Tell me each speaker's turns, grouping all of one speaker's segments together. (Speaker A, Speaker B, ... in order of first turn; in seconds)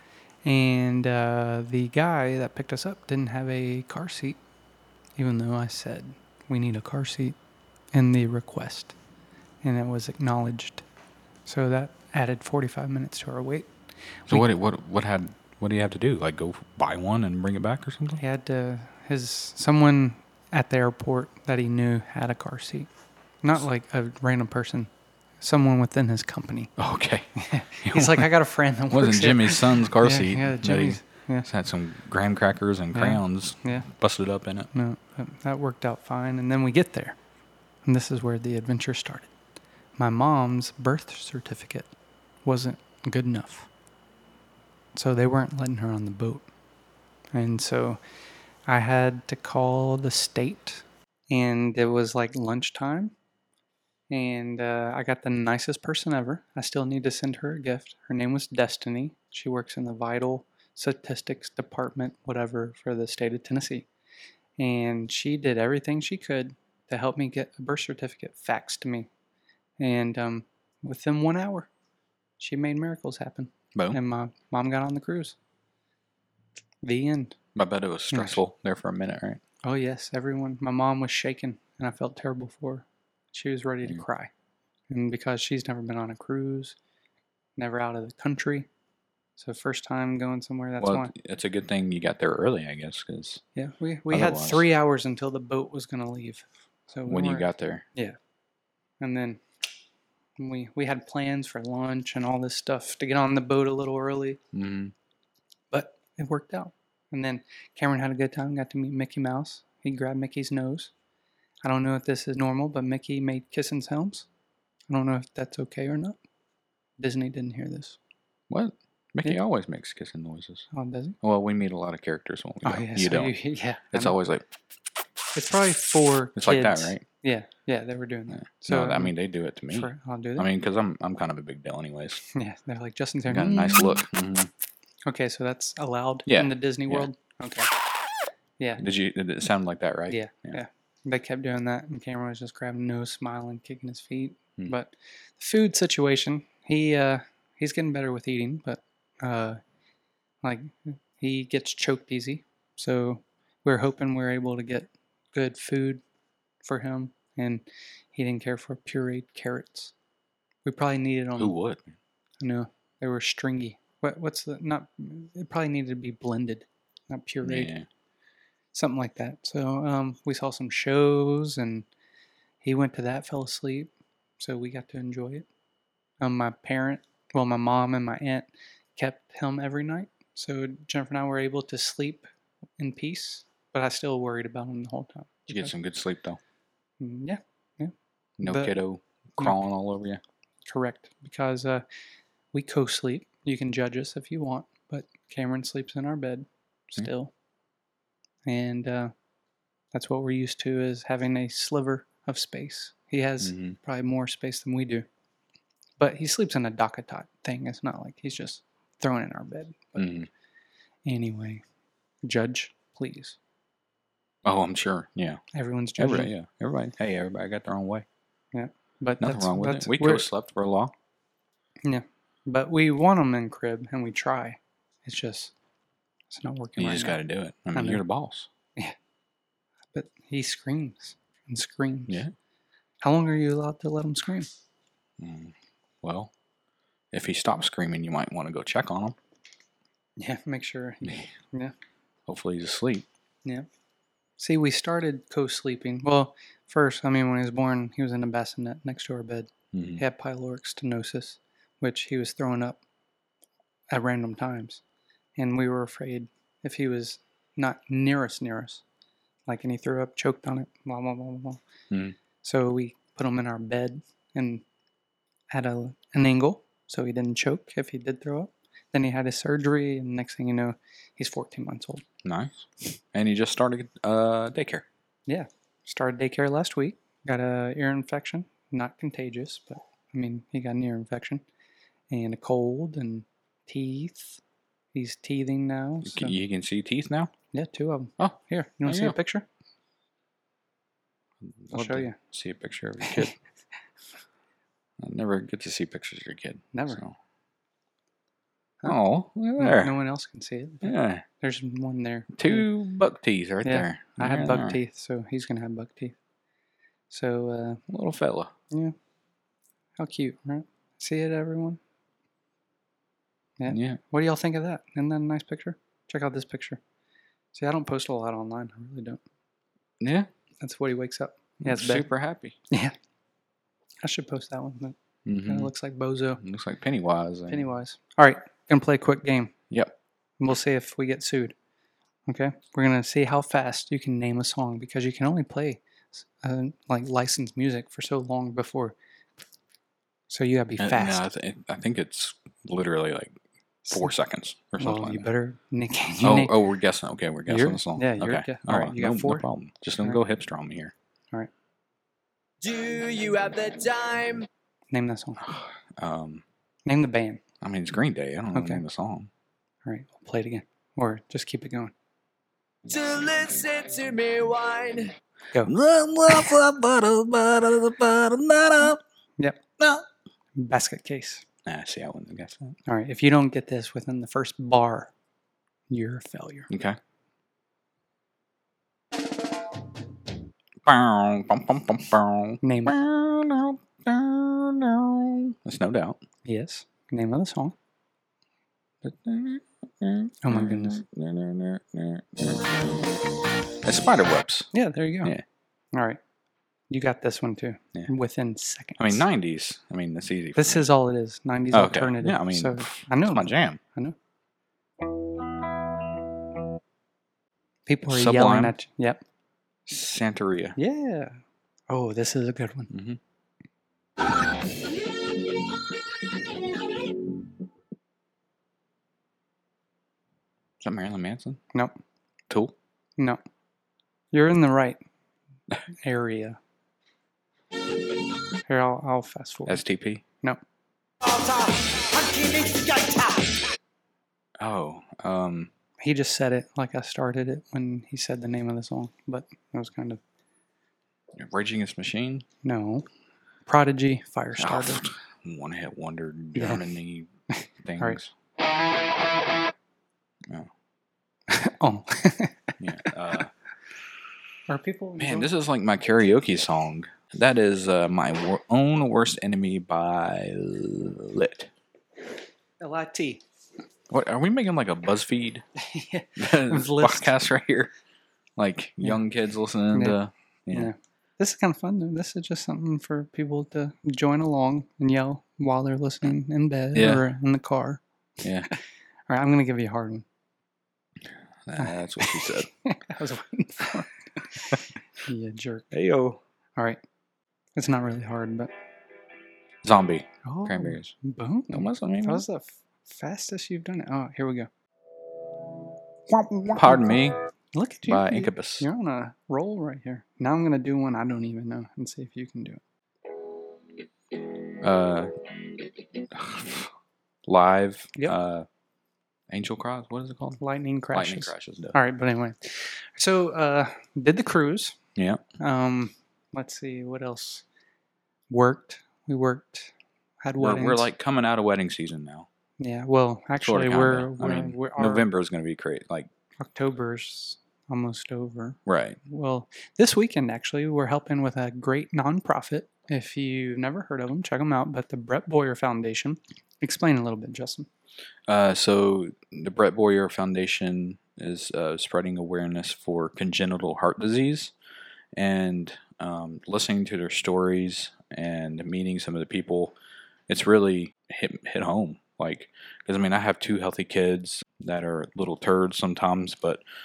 Speaker A: 0.4-4.4, 5.2-7.4, 7.9-9.0, 9.6-10.8, 11.5-13.7, 18.2-22.9, 23.4-26.7, 27.4-31.5, 32.9-33.9, 34.7-37.2, 37.8-39.3, 40.0-41.9, 42.4-43.7, 44.9-46.5, 47.3-48.0, 48.7-53.1, 54.1-63.9, 64.6-69.1, 69.8-71.7, 72.4-75.4, 76.8-77.4, 78.1-78.4, 79.6-84.3, 84.9-86.8, 87.6-88.7, 89.4-91.1, 93.5-98.2, 99.0-99.4, 100.4-104.4, 105.7-110.9, 111.6-114.3, 114.9-116.2, 117.0-118.0, 120.7-121.2, 122.6-124.2, 125.3-129.1, 129.7-130.5, 132.3-134.0, 135.1-137.7, 140.1-149.6, 150.4-156.0, 156.6-159.9, 160.7-161.5, 162.4-167.7, 168.7-171.9, 172.6-175.5, 176.2-185.7, 187.0-188.8, 190.7-191.8, 192.5-197.3, 198.4-199.1, 199.9-205.1, 206.0-210.2, 211.1-211.6, 212.2-213.4, 215.5-216.3, 218.5-220.3, 221.8-225.5, 226.3-227.2, 227.7-228.0, 229.9-232.2, 233.0-234.5, 240.2-241.7, 244.4-252.8, 253.9-254.8, 255.4-258.8, 259.5-261.6, 262.4-264.6, 265.5-272.0, 275.3-281.4, 282.1-284.4, 284.9-286.3, 287.5-289.5, 291.7-292.2, 293.0-293.3, 296.7-297.0, 299.6-302.7, 303.6-306.1, 307.1-307.8, 310.0-311.8, 313.6-316.8, 317.5-319.2, 320.6-322.1, 322.7-322.9, 324.0-326.4, 327.5-329.5, 330.4-331.6, 332.3-339.0, 340.3-341.3, 343.9-344.1, 344.8-346.6, 347.5-349.5, 354.9-355.4, 356.9-357.4, 358.5-358.8, 359.9-361.9, 369.4-369.7, 370.6-371.4, 372.9-375.1, 375.9-376.7, 382.6-383.0, 386.4-387.8, 390.4-391.0, 394.7-395.3, 395.9-396.2, 396.9-399.2, 400.6-404.2, 407.9-409.2, 410.8-412.9, 424.3-425.0, 426.0-426.6, 428.7-429.8, 436.0-440.2, 442.6-443.1, 443.7-445.1, 446.5-446.9, 447.6-448.2, 451.5-453.1, 454.7-455.5, 462.8-463.4, 465.8-467.3, 469.9-470.2, 470.7-478.0, 479.3-480.2, 481.8-485.9, 487.8-488.7, 490.4-494.7, 496.3-497.2, 497.7-502.8, 510.6-515.0, 515.6-517.6, 518.5-521.1, 522.8-525.3, 526.6-537.9
Speaker B: 14.3-18.2, 26.8-28.3, 28.9-34.7, 77.5-79.4, 90.8-93.4, 94.1-94.7, 97.1-97.8, 104.5-104.9, 118.5-120.7, 121.2-123.4, 123.9-124.4, 126.4-127.0, 128.4-132.2, 133.3-134.5, 136.3-137.1, 138.8-140.6, 161.4-161.9, 167.4-167.9, 185.5-186.4, 188.4-190.2, 203.4-203.8, 210.0-210.3, 214.4-215.4, 216.0-218.1, 219.2-220.9, 226.8-228.5, 232.1-232.3, 235.2-236.3, 237.1-239.2, 242.3-243.1, 249.7-250.0, 261.9-262.2, 272.2-274.9, 286.1-287.3, 288.2-289.2, 291.4-293.4, 295.0-297.2, 298.8-299.9, 300.8-301.2, 302.3-304.8, 307.9-308.5, 313.7-314.0, 320.0-320.3, 321.6-322.6, 325.2-325.7, 326.4-327.7, 340.8-343.4, 343.9-345.3, 346.2-350.9, 355.4-356.4, 357.6-359.3, 365.6-369.0, 369.8-370.0, 371.6-372.7, 376.7-377.0, 380.8-386.2, 389.0-393.3, 393.8-394.7, 399.0-400.9, 401.7-403.8, 408.1-408.8, 409.9-410.8, 412.9-413.2, 420.8-421.6, 422.5-422.7, 429.7-430.2, 434.6-435.7, 441.3-442.5, 444.6-447.3, 447.8-448.3, 452.8-453.5, 455.2-461.7, 464.1-465.6, 466.4-467.9, 468.6-470.9, 476.9-477.3, 478.4-478.7, 481.2-482.7, 485.9-486.4, 489.8-491.1, 491.7-492.4, 496.7-497.4, 498.1-498.9, 504.8-505.3, 506.3-506.9, 507.5-508.7, 509.5-510.6, 511.1-512.0, 515.2-515.4, 520.6-522.5, 523.6-526.3, 528.9-529.2, 538.5-544.7, 545.3-550.0, 550.5-556.8
Speaker C: 352.6-354.5, 362.9-365.1